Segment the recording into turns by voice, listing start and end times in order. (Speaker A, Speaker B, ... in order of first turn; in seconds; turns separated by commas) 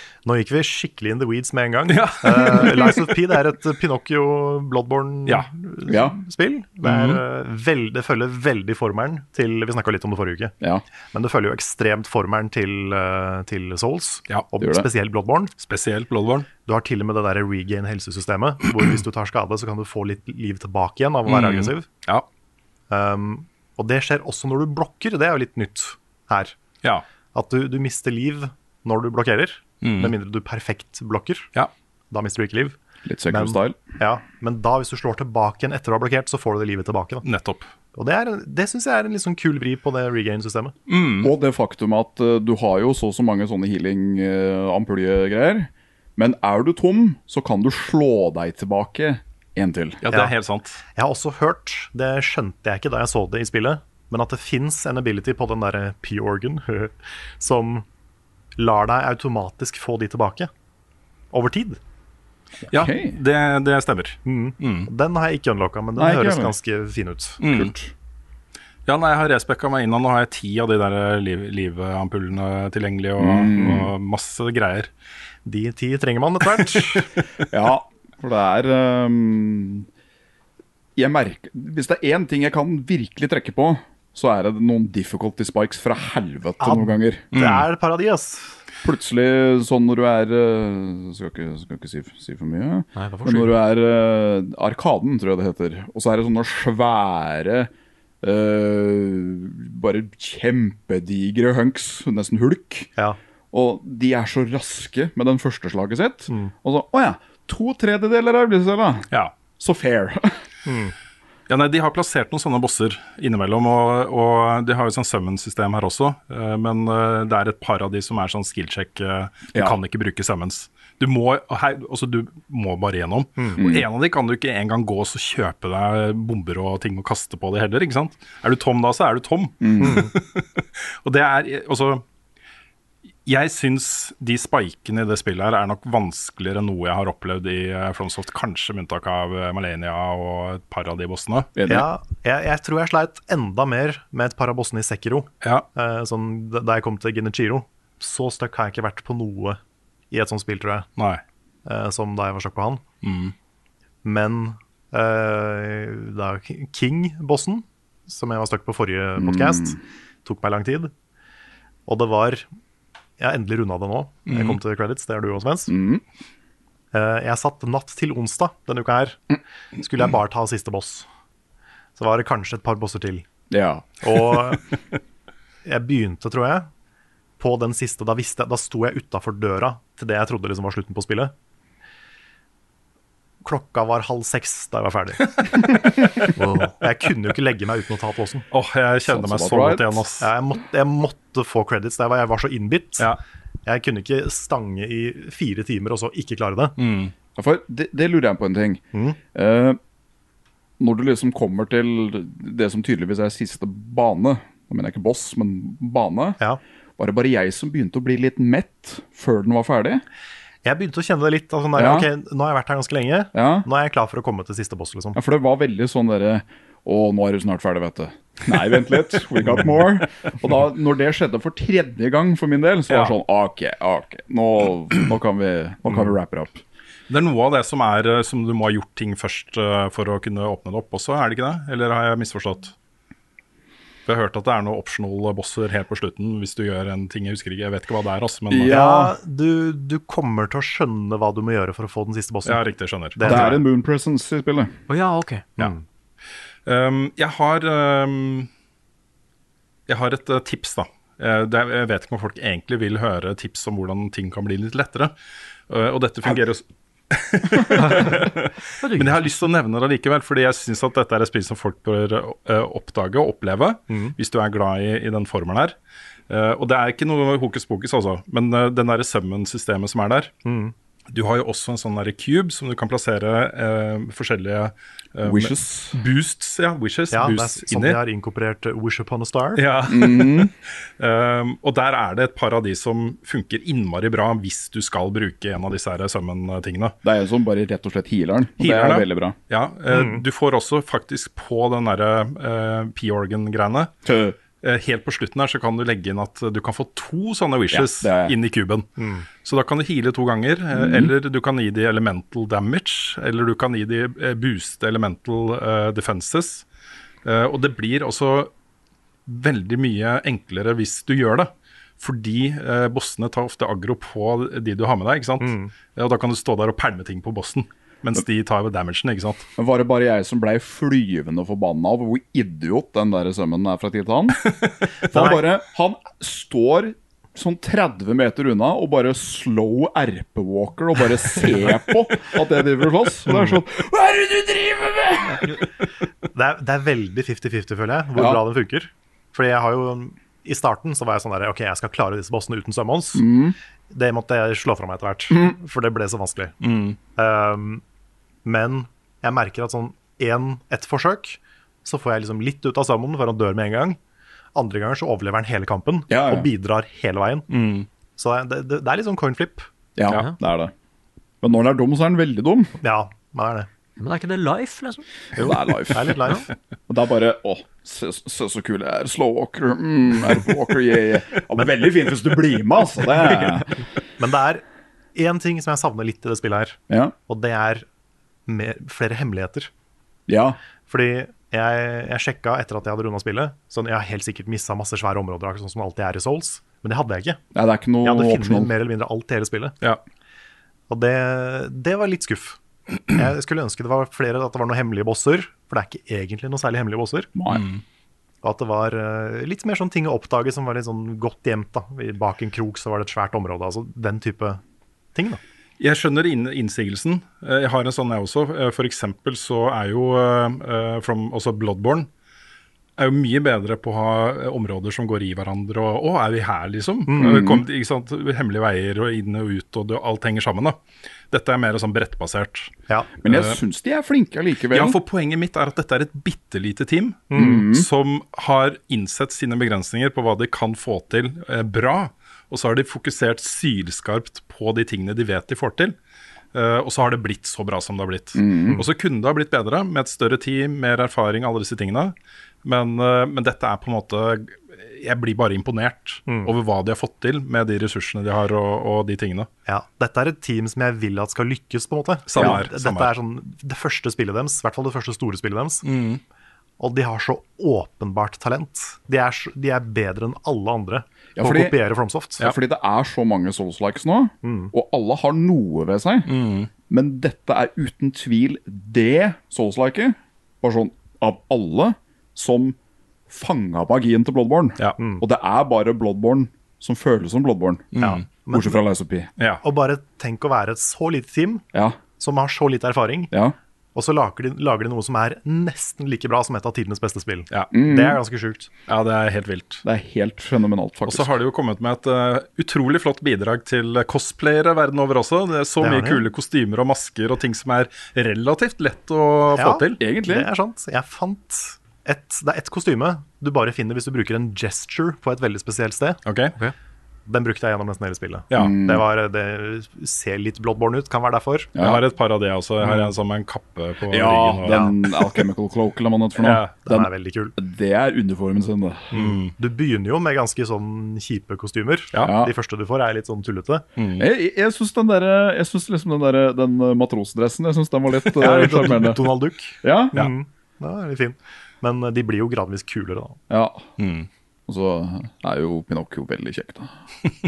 Speaker A: 0.2-10.5, Speaker B: 1.9-3.1, Speaker C: 5.9-6.2, Speaker B: 6.8-7.2, Speaker A: 11.1-15.5, Speaker C: 14.6-14.9, Speaker B: 15.6-16.5, Speaker A: 16.6-21.9, Speaker B: 21.3-22.2, Speaker A: 22.9-26.6, Speaker A: 27.3-31.5, Speaker B: 29.8-30.1, Speaker A: 32.1-32.8, Speaker C: 33.0-33.8, Speaker A: 33.3-37.2, Speaker B: 37.2-37.7, Speaker A: 37.9-40.7, Speaker B: 40.9-41.3, Speaker C: 41.2-50.0, Speaker B: 50.0-50.8, Speaker A: 51.0-57.8, Speaker A: 58.5-60.5, Speaker A: 61.3-61.8, Speaker C: 62.7-63.2, Speaker B: 62.7-64.9, Speaker A: 64.2-67.4, Speaker C: 66.0-66.5, Speaker B: 67.4-67.7, Speaker C: 67.4-67.9, Speaker B: 68.8-74.9, Speaker C: 73.2-73.9, Speaker A: 75.4-77.1, Speaker C: 77.5-79.9, Speaker C: 81.0-87.2, Speaker A: 86.6-88.5, Speaker B: 87.3-87.7, Speaker C: 88.8-97.7, Speaker D: 93.0-93.5, Speaker C: 98.2-102.9, Speaker C: 103.5-110.4, Speaker B: 109.1-109.3, Speaker A: 110.7-110.9, Speaker B: 111.5-132.0, Speaker C: 123.6-123.9, Speaker C: 129.6-130.1, Speaker A: 129.8-130.1, Speaker B: 133.2-141.5, Speaker C: 141.5-141.9, Speaker A: 141.7-149.6, Speaker A: 150.1-150.9, Speaker B: 151.0-151.2, Speaker A: 151.7-152.8, Speaker B: 153.0-153.3, Speaker A: 154.0-160.9, Speaker C: 159.2-159.8, Speaker A: 161.8-162.5, Speaker A: 163.2-165.7, Speaker B: 164.3-164.6, Speaker C: 165.7-166.0, Speaker A: 166.9-169.2, Speaker A: 169.8-171.1, Speaker A: 171.9-173.3, Speaker C: 173.5-174.2, Speaker A: 174.0-174.6, Speaker A: 175.6-176.7, Speaker A: 177.4-181.3, Speaker A: 183.4-185.8, Speaker D: 186.4-186.8, Speaker A: 186.8-188.4, Speaker B: 188.5-190.3, Speaker C: 189.1-190.0, Speaker A: 190.2-193.1, Speaker A: 193.7-196.8, Speaker B: 196.8-197.1, Speaker C: 197.3-198.8, Speaker C: 199.3-199.8, Speaker C: 200.8-206.4, Speaker C: 207.0-210.0, Speaker A: 210.6-215.2, Speaker C: 211.8-212.1, Speaker C: 213.3-213.7, Speaker C: 215.1-226.6, Speaker B: 222.9-223.1, Speaker B: 227.1-232.7, Speaker B: 234.1-238.8, Speaker C: 238.5-239.1, Speaker A: 238.7-242.6, Speaker B: 242.4-243.6, Speaker A: 243.1-243.6, Speaker C: 243.2-244.7, Speaker D: 244.9-245.4, Speaker A: 245.6-245.8, Speaker B: 246.7-248.5, Speaker B: 249.9-255.1, Speaker B: 255.7-265.8, Speaker D: 258.8-259.3, Speaker A: 263.9-264.1, Speaker B: 266.3-270.3, Speaker A: 270.4-270.7, Speaker B: 271.1-278.0, Speaker C: 275.2-276.0, Speaker A: 277.1-279.6, Speaker B: 279.6-286.9, Speaker C: 279.9-280.5, Speaker C: 287.0-289.4, Speaker B: 288.6-293.9, Speaker A: 289.9-290.2, Speaker C: 294.0-294.4, Speaker B: 294.6-298.9, Speaker C: 297.7-298.4, Speaker A: 299.0-299.3, Speaker B: 299.4-306.6, Speaker C: 300.7-301.1, Speaker B: 307.2-308.5, Speaker B: 309.3-319.5, Speaker A: 315.4-315.7, Speaker C: 319.6-324.5, Speaker B: 324.4-324.8, Speaker C: 325.0-335.4, Speaker A: 325.1-325.4, Speaker A: 335.2-335.6, Speaker A: 336.3-343.2, Speaker C: 338.1-338.4, Speaker C: 343.1-343.6, Speaker A: 343.9-346.5, Speaker C: 345.3-345.5, Speaker B: 346.6-347.0, Speaker A: 347.1-347.8, Speaker A: 348.4-354.0, Speaker A: 354.5-357.5, Speaker C: 356.1-356.5, Speaker B: 357.5-357.9, Speaker A: 358.2-359.7, Speaker C: 359.9-360.7, Speaker C: 361.4-362.7, Speaker A: 362.8-363.7, Speaker D: 364.0-365.1, Speaker C: 365.4-366.2, Speaker A: 365.4-366.5, Speaker C: 366.9-373.7, Speaker A: 374.2-374.6, Speaker A: 375.1-377.9, Speaker C: 376.9-377.1, Speaker A: 378.5-379.7, Speaker C: 380.3-380.6, Speaker A: 380.9-387.4, Speaker C: 387.5-388.7, Speaker A: 388.0-389.7, Speaker A: 390.9-392.6, Speaker A: 393.1-397.3, Speaker C: 397.3-397.6, Speaker B: 397.5-397.8, Speaker A: 398.4-404.6, Speaker A: 405.1-405.4, Speaker B: 405.8-412.1, Speaker B: 413.0-420.8, Speaker A: 417.1-417.5, Speaker C: 417.1-417.6, Speaker B: 421.3-422.7, Speaker C: 423.2-425.0, Speaker B: 423.3-423.6, Speaker B: 424.7-435.9, Speaker A: 427.3-427.7, Speaker C: 427.3-427.9, Speaker B: 436.5-449.5, Speaker C: 438.4-438.8, Speaker A: 446.3-446.5, Speaker A: 449.7-455.8, Speaker B: 452.3-453.1, Speaker C: 452.4-452.6, Speaker B: 455.8-456.2, Speaker A: 456.8-462.4, Speaker C: 461.4-461.8, Speaker C: 462.4-466.3, Speaker A: 464.4-464.7, Speaker B: 466.3-466.7, Speaker C: 466.9-472.8, Speaker C: 473.3-477.9, Speaker B: 477.9-478.2, Speaker A: 478.0-478.8, Speaker C: 478.5-479.3, Speaker B: 479.4-479.6, Speaker A: 479.6-481.6, Speaker C: 481.7-482.0, Speaker A: 482.2-483.3, Speaker C: 483.3-483.6, Speaker A: 483.9-488.7, Speaker C: 487.7-488.2, Speaker B: 488.9-489.8, Speaker C: 489.8-491.3, Speaker B: 491.1-500.0, Speaker A: 495.8-496.2, Speaker A: 499.5-506.2, Speaker C: 500.0-500.5, Speaker B: 506.2-506.5, Speaker A: 507.2-511.7, Speaker C: 508.5-509.0, Speaker C: 511.7-512.0, Speaker B: 511.8-514.9, Speaker C: 514.1-519.1, Speaker A: 514.6-515.0, Speaker B: 516.4-516.7, Speaker A: 516.9-517.5, Speaker B: 519.1-519.5, Speaker A: 519.1-523.8, Speaker B: 522.1-522.4, Speaker C: 522.2-522.5, Speaker B: 524.0-524.3, Speaker C: 524.2-529.2, Speaker A: 528.4-533.4, Speaker C: 529.8-530.1, Speaker C: 533.5-533.9, Speaker B: 534.0-534.3, Speaker C: 534.7-536.9